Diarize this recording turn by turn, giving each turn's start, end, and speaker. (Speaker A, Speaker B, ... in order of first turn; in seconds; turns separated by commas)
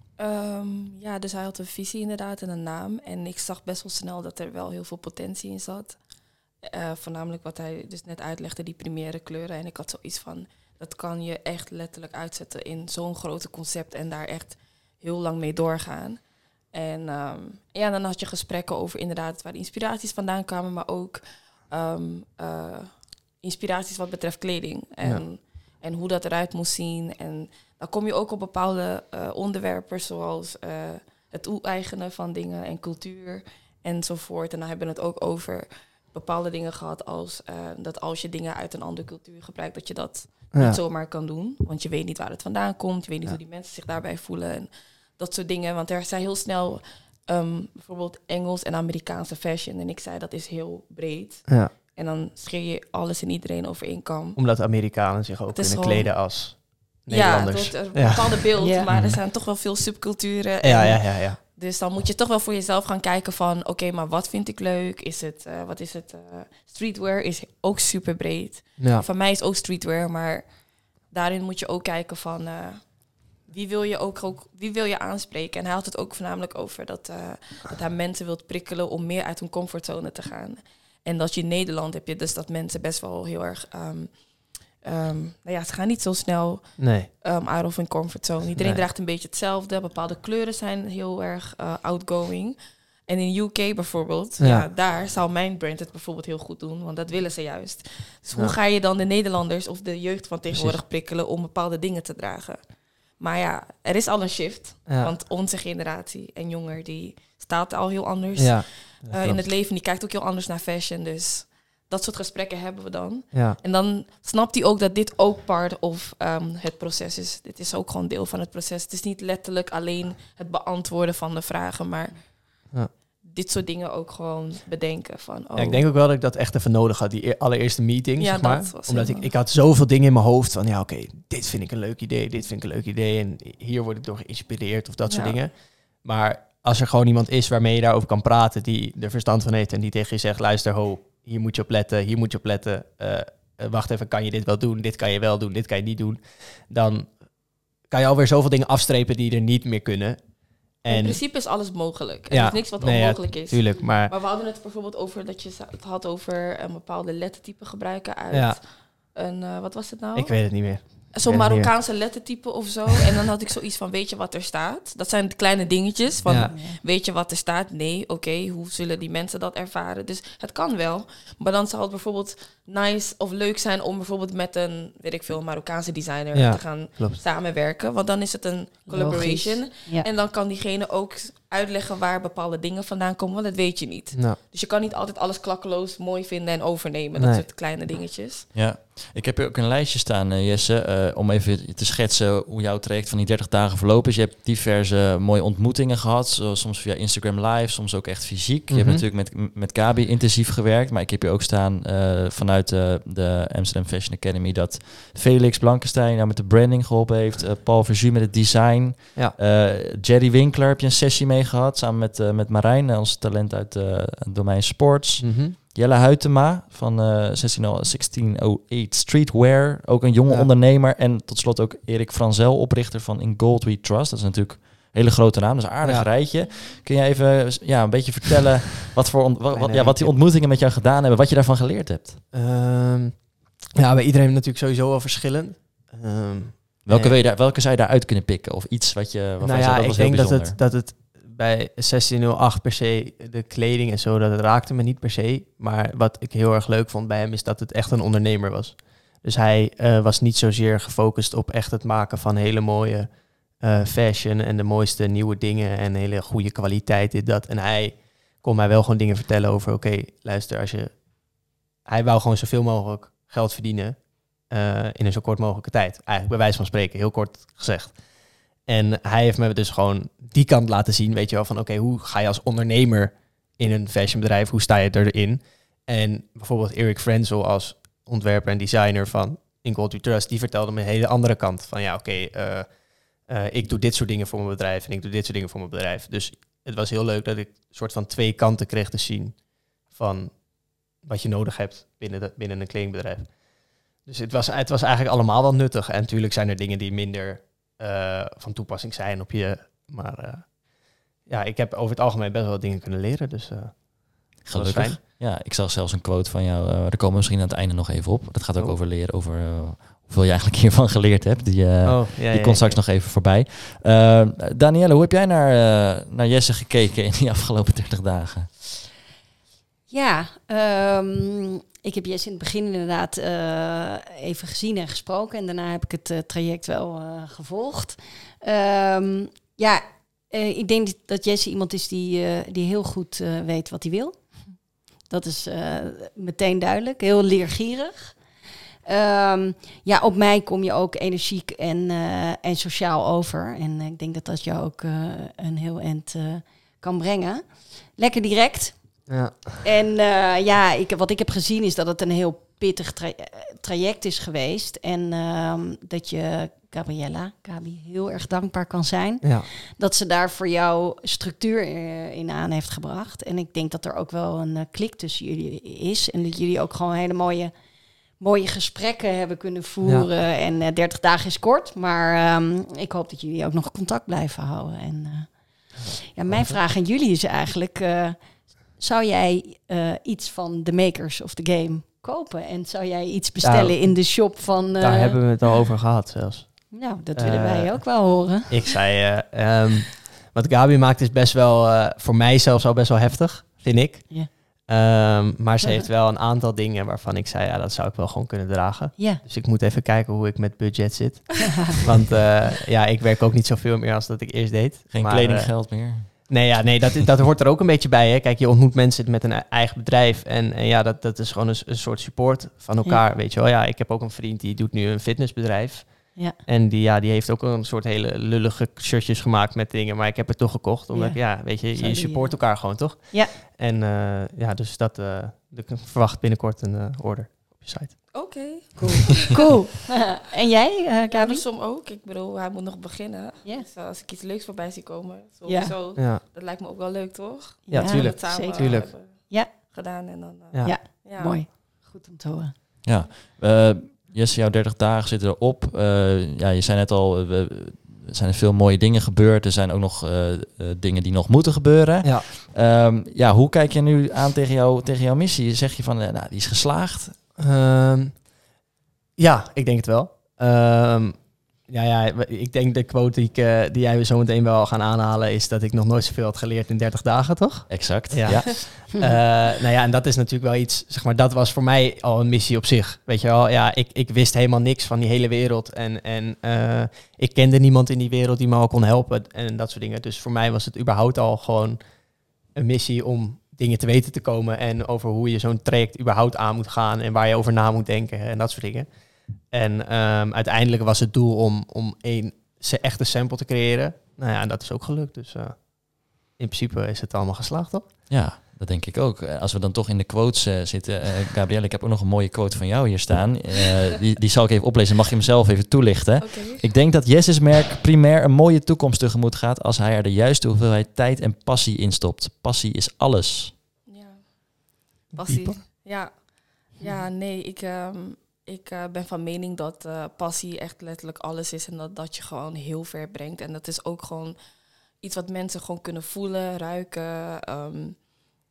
Speaker A: 0.2-54.6, Speaker B: 25.0-25.3, Speaker B: 40.5-40.8, Speaker B: 51.5-51.7, Speaker B: 54.3-59.2, Speaker A: 55.5-122.7, Speaker C: 58.6-58.9, Speaker B: 60.6-61.4, Speaker B: 68.8-69.0, Speaker B: 86.8-87.1, Speaker B: 88.6-88.8, Speaker B: 94.4-94.6, Speaker B: 100.5-100.8, Speaker B: 104.9-105.1, Speaker B: 108.4-109.4, Speaker A: 123.2-125.8, Speaker B: 125.5-151.2, Speaker A: 128.2-129.3, Speaker A: 135.1-135.4, Speaker A: 150.8-188.5, Speaker B: 152.3-154.1, Speaker B: 158.3-158.6, Speaker B: 160.1-161.8, Speaker B: 166.2-166.5, Speaker C: 166.5-166.8, Speaker B: 176.3-177.2, Speaker C: 178.9-180.1, Speaker B: 184.1-184.4, Speaker B: 187.2-187.4, Speaker D: 188.5-232.2, Speaker B: 198.7-199.0, Speaker B: 215.2-215.5, Speaker B: 225.8-226.1, Speaker A: 226.4-226.7, Speaker B: 229.5-230.2, Speaker B: 232.3-237.1, Speaker D: 236.8-240.6, Speaker B: 239.4-305.0, Speaker D: 304.4-318.5, Speaker B: 311.8-312.8, Speaker C: 319.9-385.4, Speaker B: 349.1-349.6, Speaker B: 359.2-359.5, Speaker B: 376.2-376.6, Speaker B: 383.4-429.0, Speaker C: 386.7-388.6, Speaker C: 399.0-399.2, Speaker D: 404.9-406.3, Speaker C: 420.9-423.3, Speaker A: 428.1-429.3, Speaker C: 428.9-431.4, Speaker A: 431.1-441.4, Speaker C: 435.4-435.8, Speaker B: 436.0-436.2, Speaker C: 437.7-439.5, Speaker B: 437.7-438.9, Speaker B: 440.5-440.8, Speaker C: 440.6-442.6, Speaker D: 442.8-457.2, Speaker B: 457.4-458.3, Speaker B: 459.1-497.9, Speaker D: 467.7-468.6, Speaker D: 498.1-513.5, Speaker A: 506.2-506.6, Speaker A: 513.9-528.1, Speaker B: 515.2-515.6